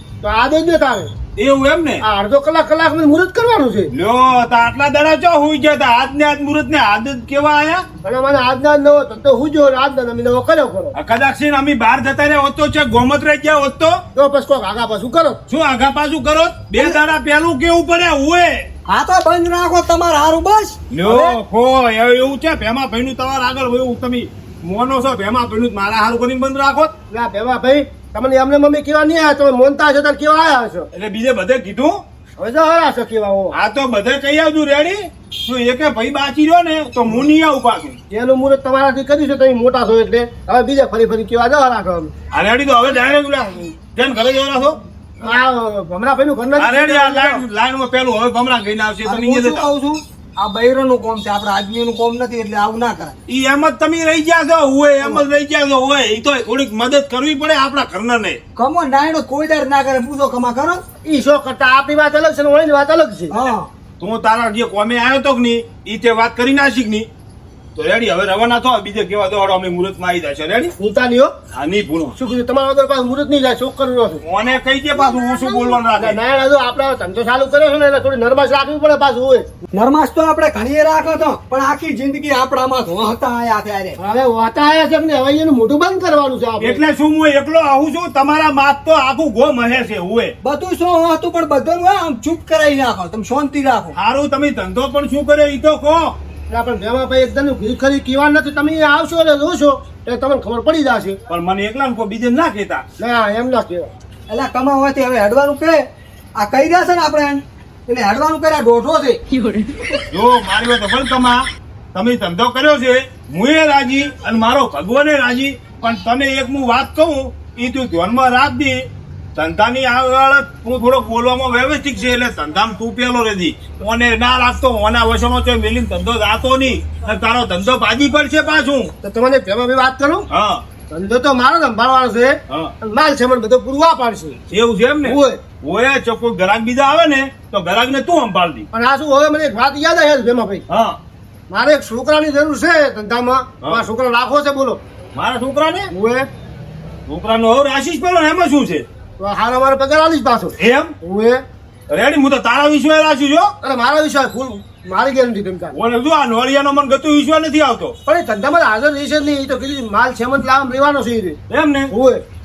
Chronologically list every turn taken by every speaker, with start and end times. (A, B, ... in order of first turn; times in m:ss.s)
0:00.2-0:01.1 A
0:01.4-0:02.0 B
0:02.0-0:03.9 A
0:03.9-0:07.8 B
0:08.0-0:10.9 A
0:10.9-0:14.0 B
0:14.2-0:15.4 A
0:15.5-0:18.6 B
0:18.9-0:21.4 C
0:20.9-0:26.9 B
0:27.1-0:30.9 A
0:30.9-0:32.0 B
0:32.4-0:33.6 A
0:33.5-0:38.0 B
0:38.1-0:42.1 A
0:42.3-0:44.8 B
0:45.2-0:47.4 A
0:46.6-0:49.7 B
0:49.0-0:53.1 C
0:53.3-0:58.4 B
0:58.6-1:00.8 C
1:01.0-1:03.4 A
1:03.3-1:03.7 C
1:04.0-1:07.1 B
1:07.8-1:10.7 B
1:10.8-1:11.3 A
1:11.5-1:12.2 B
1:12.2-1:14.2 A
1:14.2-1:16.2 B
1:15.0-1:19.4 A
1:19.7-1:24.0 C
1:24.0-1:26.8 A
1:26.6-1:30.3 B
1:30.4-1:33.9 C
1:33.9-1:36.1 B
1:36.5-1:41.2 A
1:41.3-1:42.8 B
1:43.0-1:43.9 A
1:44.3-1:45.8 C
1:46.4-1:49.2 C
1:50.1-1:51.4 B
1:51.9-1:58.8 B
1:59.4-2:08.9 B
2:09.0-2:10.3 A
2:10.3-2:10.6 B
2:10.9-2:14.4 A
2:14.5-2:18.7 B
2:15.0-2:15.4 A
2:18.7-2:20.6 A
2:20.7-2:21.0 B
2:21.5-2:24.8 A
2:25.2-2:25.9 B
2:25.9-2:26.3 A
2:27.1-2:28.8 B
2:29.2-2:31.4 A
2:30.6-2:30.9 B
2:31.9-2:33.5 B
2:33.6-2:35.8 A
2:35.7-2:38.0 B
2:38.1-2:41.4 A
2:41.5-2:41.9 B
2:41.9-2:42.2 A